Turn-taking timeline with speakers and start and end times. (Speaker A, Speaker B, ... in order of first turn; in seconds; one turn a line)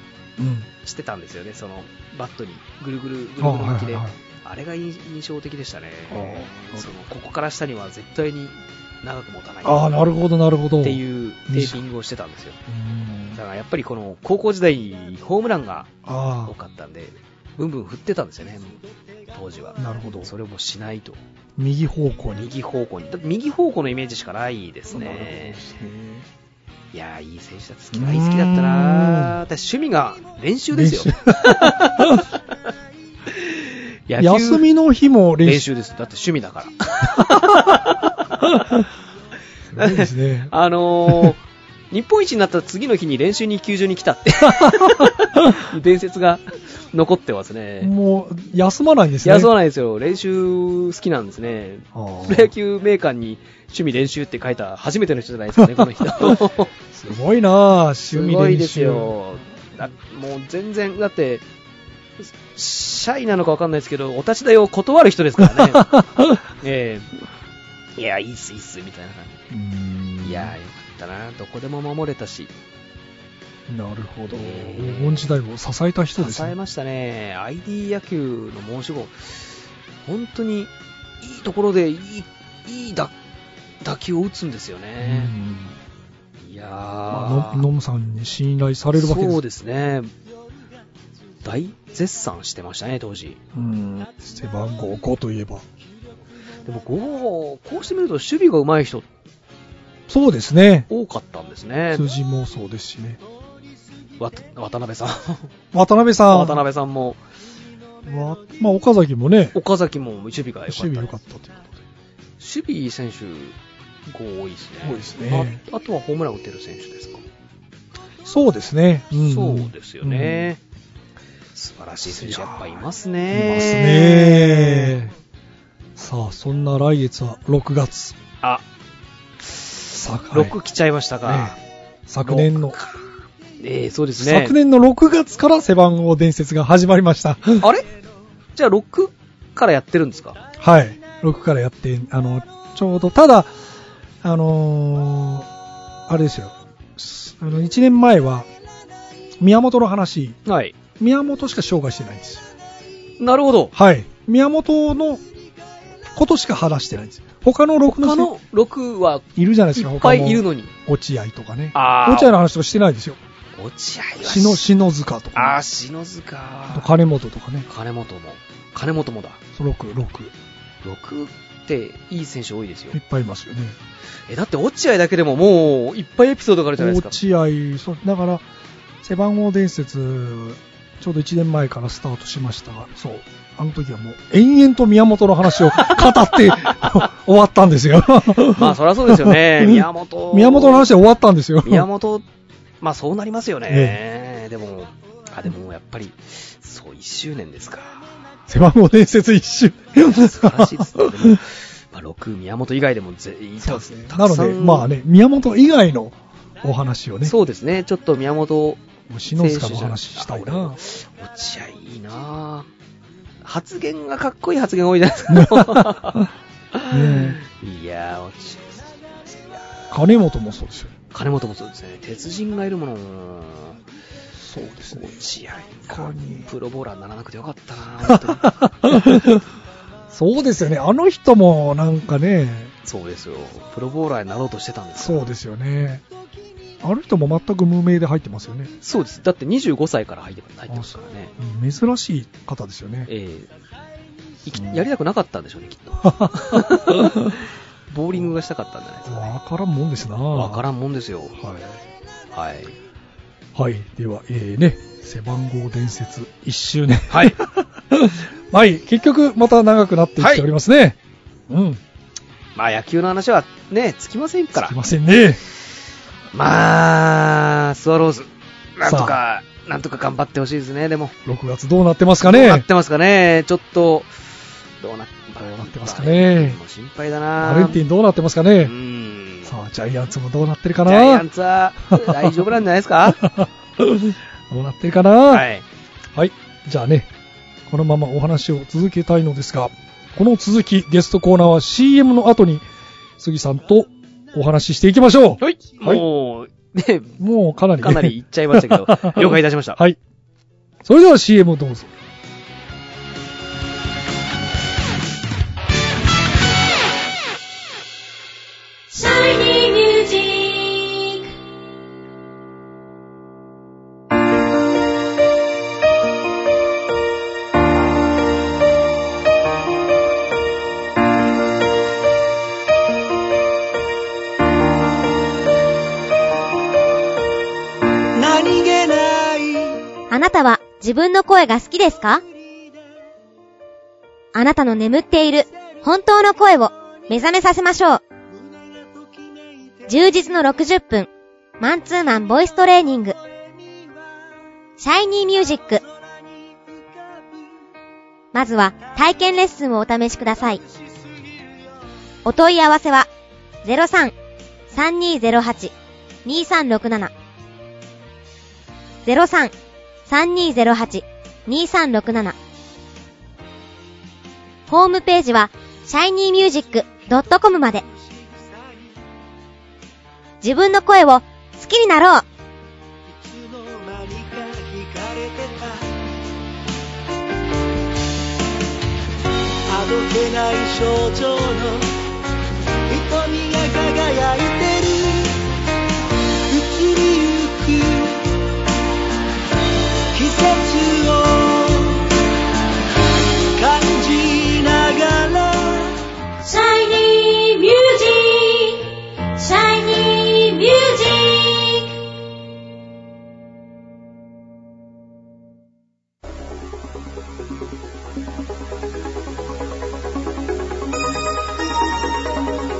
Speaker A: 0.4-0.7
Speaker B: 0.8-10.0
Speaker A: 3.4-4.1
Speaker A: 6.1-6.9
Speaker A: 9.6-11.8
Speaker B: 10.8-12.6
Speaker A: 12.7-13.4
Speaker B: 13.3-15.9
Speaker A: 16.0-16.5
Speaker B: 16.4-18.8
Speaker B: 19.3-21.2
Speaker A: 19.8-20.3
Speaker A: 21.6-22.5
Speaker B: 22.3-25.8
Speaker A: 24.9-26.2
Speaker B: 26.9-32.2
Speaker A: 27.9-29.4
Speaker A: 30.7-32.2
Speaker B: 33.3-34.6
Speaker A: 34.2-35.6
Speaker B: 35.4-38.6
Speaker A: 39.7-40.5
Speaker B: 39.8-47.9
Speaker A: 41.1-41.3
Speaker A: 44.5-45.0
Speaker A: 47.8-49.5
Speaker B: 49.2-56.7
Speaker A: 51.9-52.5
Speaker A: 55.7-56.4
Speaker A: 56.9-59.1
Speaker B: 58.1-61.4
Speaker B: 62.5-65.9
Speaker A: 65.4-66.4
Speaker B: 66.6-67.1
Speaker B: 68.0-69.3
Speaker A: 69.5-70.5
Speaker B: 70.2-72.5
Speaker A: 73.7-76.5
Speaker B: 74.3-75.3
Speaker B: 76.2-79.4
Speaker B: 80.0-83.1
Speaker B: 83.8-85.3
Speaker A: 85.0-85.8
Speaker B: 86.4-87.7
Speaker A: 87.1-89.4
Speaker B: 89.0-90.1
Speaker B: 91.4-93.4
Speaker A: 93.5-95.6
Speaker B: 96.7-99.1
Speaker A: 100.1-100.9
Speaker B: 100.9-102.1
Speaker A: 101.9-103.2
Speaker B: 104.2-105.5
Speaker A: 105.7-106.6
Speaker B: 106.3-107.2
Speaker A: 108.0-109.5
Speaker B: 109.5-111.1
Speaker A: 110.7-111.8
Speaker B: 112.4-113.5
Speaker B: 114.1-117.2
Speaker A: 114.8-115.6
Speaker A: 118.2-120.5
Speaker B: 119.1-120.6
Speaker B: 121.5-125.0
Speaker A: 122.1-125.1
Speaker A: 126.0-128.2
Speaker A: 129.8-130.6
Speaker B: 130.3-131.6
Speaker A: 131.2-131.6
Speaker A: 132.1-132.8
Speaker B: 132.2-133.1
Speaker B: 133.6-134.5
Speaker A: 134.2-137.7
Speaker B: 137.6-137.9
Speaker B: 138.6-140.4
Speaker A: 140.6-143.5
Speaker A: 144.2-145.5
Speaker A: 146.1-148.5
Speaker A: 149.4-150.4
Speaker B: 150.4-150.8
Speaker A: 151.0-152.4
Speaker B: 153.2-153.7
Speaker A: 153.7-155.2
Speaker A: 156.1-158.3
Speaker B: 158.0-160.7
Speaker A: 159.3-163.2
Speaker B: 161.7-162.3
Speaker B: 163.6-164.6
Speaker A: 164.2-165.6
Speaker B: 165.3-166.9
Speaker A: 166.7-167.7
Speaker B: 167.7-169.4
Speaker A: 169.6-170.3
Speaker B: 170.8-173.0
Speaker A: 172.9-173.8
Speaker B: 174.3-177.2
Speaker A: 176.8-178.4
Speaker A: 179.0-191.9
Speaker B: 186.7-187.0
Speaker B: 188.5-190.9
Speaker B: 191.6-192.2
Speaker B: 192.8-198.0
Speaker A: 193.7-194.0
Speaker A: 198.5-201.4
Speaker B: 200.0-204.9
Speaker A: 203.6-207.3
Speaker B: 207.2-208.8
Speaker A: 209.1-210.8
Speaker B: 209.3-212.7
Speaker B: 213.4-219.6
Speaker A: 215.3-216.2
Speaker A: 216.9-217.4
Speaker A: 219.9-220.9
Speaker B: 221.1-223.8
Speaker A: 224.4-225.3
Speaker B: 224.9-228.5
Speaker A: 225.9-226.5
Speaker A: 228.1-229.4
Speaker A: 230.1-232.7
Speaker B: 232.8-235.3
Speaker A: 235.0-236.0
Speaker A: 236.8-238.7
Speaker B: 238.8-241.3
Speaker A: 240.7-243.1
Speaker B: 243.1-243.5
Speaker B: 244.4-249.3
Speaker A: 244.5-244.8
Speaker A: 246.0-247.3
Speaker A: 249.1-250.6
Speaker B: 250.3-251.3
Speaker A: 251.3-251.8
Speaker B: 252.3-252.7
Speaker A: 253.5-261.0
Speaker B: 257.1-257.4
Speaker B: 260.2-260.4
Speaker A: 261.5-261.8
Speaker B: 262.6-264.8
Speaker A: 264.5-265.4
Speaker B: 266.3-271.1
Speaker A: 268.8-269.2
Speaker A: 271.2-272.6
Speaker B: 272.2-274.1
Speaker B: 274.8-277.8
Speaker A: 275.4-276.6
Speaker A: 277.4-278.7
Speaker B: 278.6-279.6
Speaker A: 279.4-281.2
Speaker B: 280.8-283.2
Speaker A: 281.9-282.4
Speaker A: 283.1-285.5
Speaker B: 285.3-285.6
Speaker A: 286.1-287.1
Speaker A: 287.7-292.6
Speaker A: 293.2-296.0
Speaker B: 295.4-297.2
Speaker A: 297.2-300.0
Speaker B: 297.8-299.8
Speaker A: 300.8-301.9
Speaker C: 308.9-311.3
Speaker D: 328.1-329.8
Speaker E: 330.1-332.2
Speaker E: 334.3-338.0
Speaker E: 339.9-341.1
Speaker E: 341.6-343.1
Speaker E: 344.8-345.8
Speaker E: 348.3-350.6
Speaker E: 352.2-353.1
Speaker E: 353.6-354.1
Speaker E: 354.7-355.7
Speaker E: 356.2-357.1
Speaker E: 359.0-359.5
Speaker E: 360.1-362.4
Speaker E: 364.7-367.8
Speaker E: 370.4-372.2
Speaker D: 373.2-375.8
Speaker D: 379.7-381.9
Speaker D: 382.9-385.4
Speaker D: 386.5-388.2
Speaker D: 390.1-392.1
Speaker D: 393.5-396.0
Speaker C: 396.4-402.0